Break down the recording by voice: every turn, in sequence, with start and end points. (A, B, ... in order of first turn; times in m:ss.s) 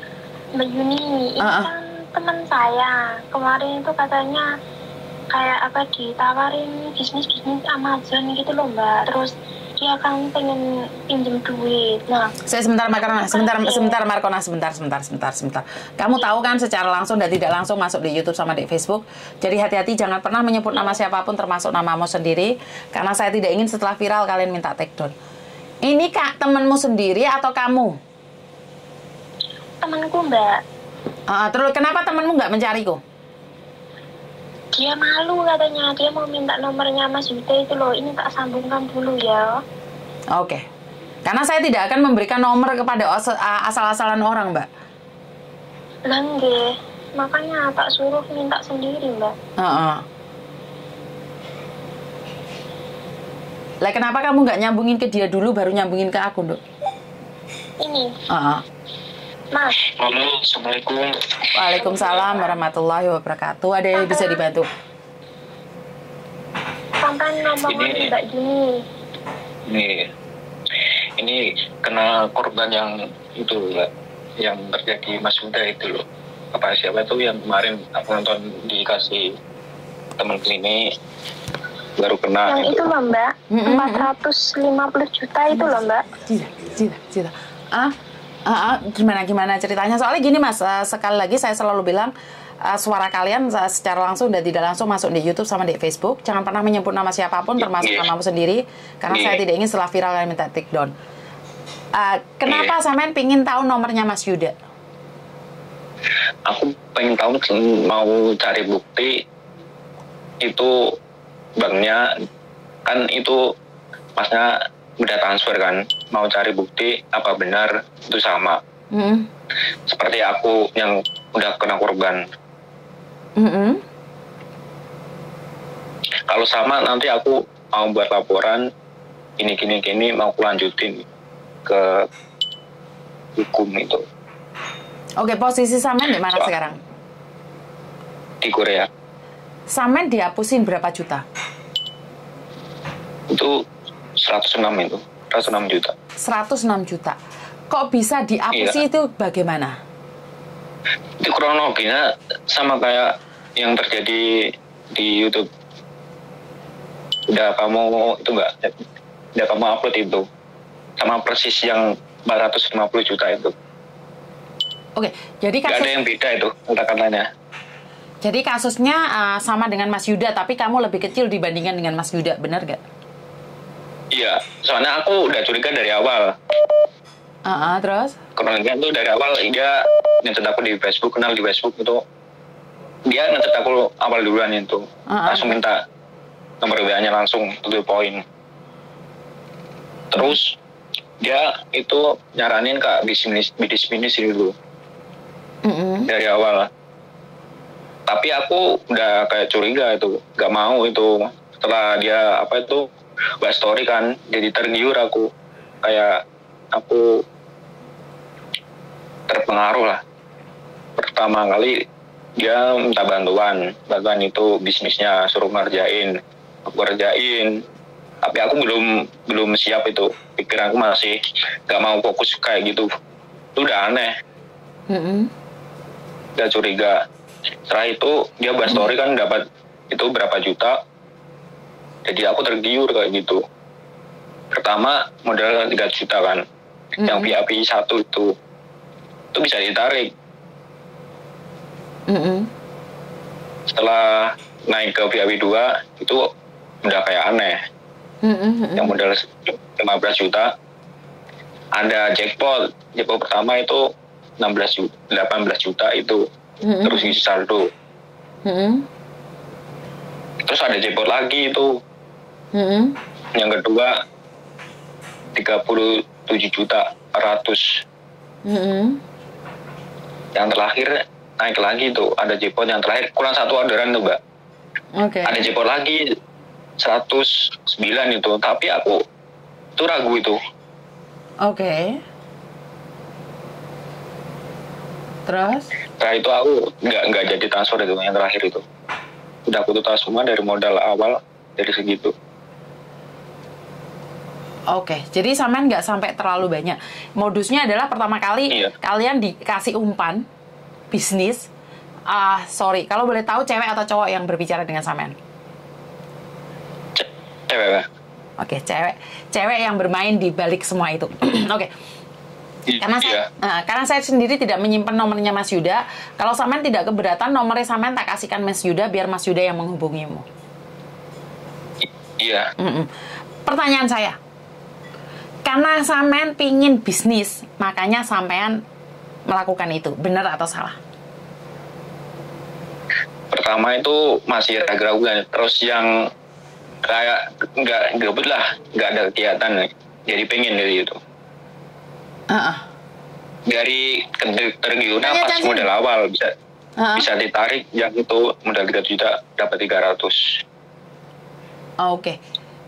0:00.6-0:04.4 A
0:01.4-0:01.7 B
0:05.3-0:12.3 A
0:12.5-0:25.1 B
0:13.0-0:14.0 A
0:25.8-0:28.0 B
0:29.8-0:30.5 A
0:31.3-0:33.0 B
0:34.7-0:39.5 A
0:40.3-0:40.6 B
0:41.2-0:44.7 B
0:46.1-0:49.3 A
0:49.6-0:50.0 B
0:53.8-0:56.6 B
0:57.8-0:58.1 A
0:58.3-0:58.6 B
1:00.0-1:01.8 C
1:01.5-1:04.7 B
1:01.8-1:02.4 A
1:03.9-1:04.4 A
1:07.0-1:08.7 A
1:07.6-1:08.1 C
1:09.7-1:10.1 C
1:11.2-1:13.9 C
1:14.4-1:16.0 C
1:16.5-1:19.3 C
1:20.2-1:20.8 C
1:22.0-1:22.9 C
1:22.4-1:26.0 A
1:23.5-1:24.1 B
1:26.2-1:27.9 B
1:28.4-1:32.1 B
1:32.6-1:40.9 B
1:37.6-1:38.1 C
1:39.1-1:39.4 C
1:42.0-1:44.5 B
1:42.5-1:42.7 C
1:46.5-1:49.1 C
1:50.4-1:50.7 C
1:51.6-1:52.0 C
1:52.8-1:53.4 C
1:54.2-1:58.6 C
1:58.9-1:59.3 B
1:59.9-2:02.2 C
2:03.4-2:03.8 B
2:06.3-2:08.6 C
2:09.4-2:11.0 C
2:11.6-2:12.0 C
2:13.4-2:14.0 C
2:15.2-2:16.8 B
2:18.4-2:18.9 C
2:19.7-2:21.2 B
2:24.2-2:25.9 C
2:26.2-2:27.2 B
2:27.7-2:29.7 B
2:28.5-2:28.8 C
2:31.2-2:34.2 C
2:34.9-2:35.4 C
2:37.3-2:38.7 C
2:39.4-2:40.2 C
2:41.0-2:43.5 C
2:45.0-2:45.9 B
2:45.7-2:47.2 C
2:48.2-2:52.8 B
2:54.1-2:56.3 C
2:57.4-2:58.2 B
2:58.4-3:02.0 C
3:03.1-3:05.8 C
3:05.1-3:05.5 B
3:06.6-3:08.2 C
3:10.1-3:10.6 C
3:11.2-3:14.5 C
3:15.6-3:16.1 B
3:16.1-3:16.7 C
3:18.1-3:22.8 C
3:23.4-3:25.3 C
3:25.8-3:26.2 C
3:26.7-3:27.2 C
3:29.3-3:30.0 C
3:31.0-3:31.8 C
3:32.4-3:36.1 C
3:36.7-3:37.5 C
3:38.2-3:41.2 C
3:41.7-3:42.9 C
3:43.6-3:44.1 C
3:44.9-3:45.3 B
3:46.4-3:47.0 C
3:47.7-3:50.8 C
3:52.0-3:53.4 C
3:54.5-3:56.4 C
3:57.0-3:57.3 B
3:57.0-3:58.3 C
3:59.3-4:00.1 C
4:02.1-4:02.5 B
4:03.7-4:06.2 C
4:06.8-4:07.6 C
4:08.2-4:08.9 B
4:08.8-4:10.5 C
4:11.8-4:13.8 C
4:14.4-4:16.2 C
4:16.6-4:17.1 B
4:16.8-4:17.7 C
4:18.4-4:18.8 B
4:20.4-4:21.7 C
4:22.5-4:23.0 B
4:23.4-4:23.9 C
4:25.4-4:27.8 C
4:28.4-4:29.0 B
4:30.3-4:34.2 C
4:35.0-4:35.5 B
4:35.2-4:36.0 C
4:36.8-4:39.0 C
4:39.8-4:40.4 C
4:41.4-4:42.0 B
4:45.3-4:45.7 B
4:46.0-4:48.6 C
4:49.5-4:52.1 C
4:54.7-5:00.2 B
5:00.9-5:01.5 B
5:02.1-5:05.1 B
5:07.0-5:07.8 C
5:08.4-5:11.7 B
5:12.7-5:13.3 C
5:12.8-5:20.2 B
5:22.2-5:22.5 C
5:22.6-5:22.9 B
5:23.4-5:24.2 B
5:25.4-5:28.6 B
5:29.3-5:30.8 B
5:33.3-5:35.9 C
5:36.8-5:41.0 C
5:42.3-5:42.6 B
5:43.5-5:46.3 C
5:45.0-5:45.7 B
5:46.8-5:47.1 B
5:47.0-5:50.4 C
5:51.8-5:52.2 B